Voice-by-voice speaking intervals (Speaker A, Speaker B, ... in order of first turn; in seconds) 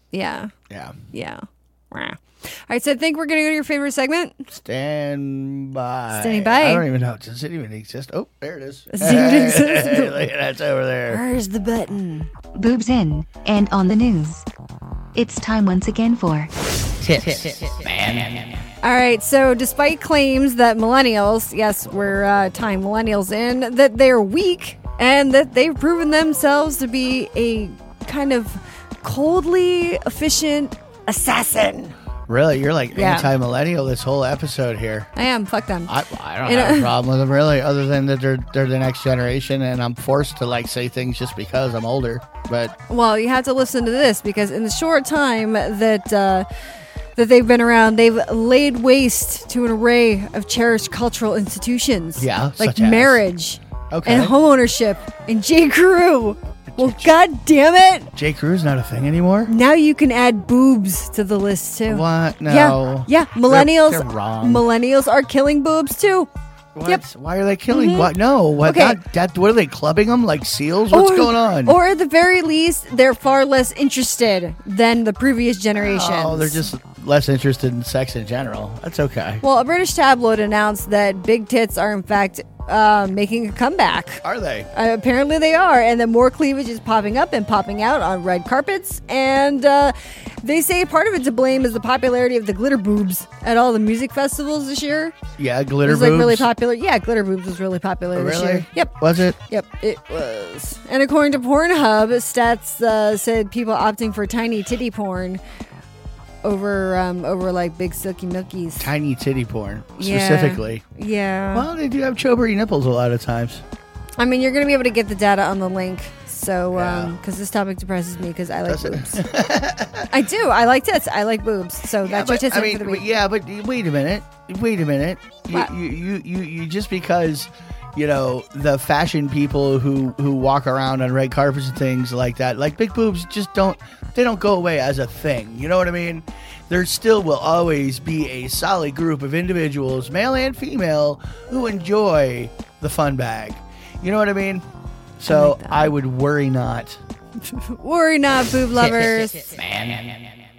Speaker A: 0.1-0.5, 1.1-4.5, 6.1-6.8, 8.9-10.2, 11.1-12.3, 18.8-31.9, 32.9-33.3, 35.1-36.9, 42.9-46.5, 47.1-58.1, 59.5-66.3, 67.7-68.1, 68.6-69.0, 70.9-76.6, 79.4-95.2, 95.8-105.4, 106.4-108.9, 110.0-111.7, 114.2-119.2, 120.1-123.0, 145.3-145.9, 147.4-149.6
Speaker B: 0.7-1.0, 4.5-11.2, 17.0-18.6, 32.3-35.1, 35.9-42.7, 52.2-53.2, 53.9-54.3, 56.7-57.1, 58.1-59.5, 61.9-64.6, 66.7-71.8, 75.7-79.4, 84.2-84.7, 95.4-96.5, 98.1-99.4, 108.8-110.8, 111.5-113.6, 116.7-117.2, 118.7-120.1, 122.0-144.7, 145.2-147.0, 148.8-150.3
Speaker C: 12.5-14.4, 15.1-16.5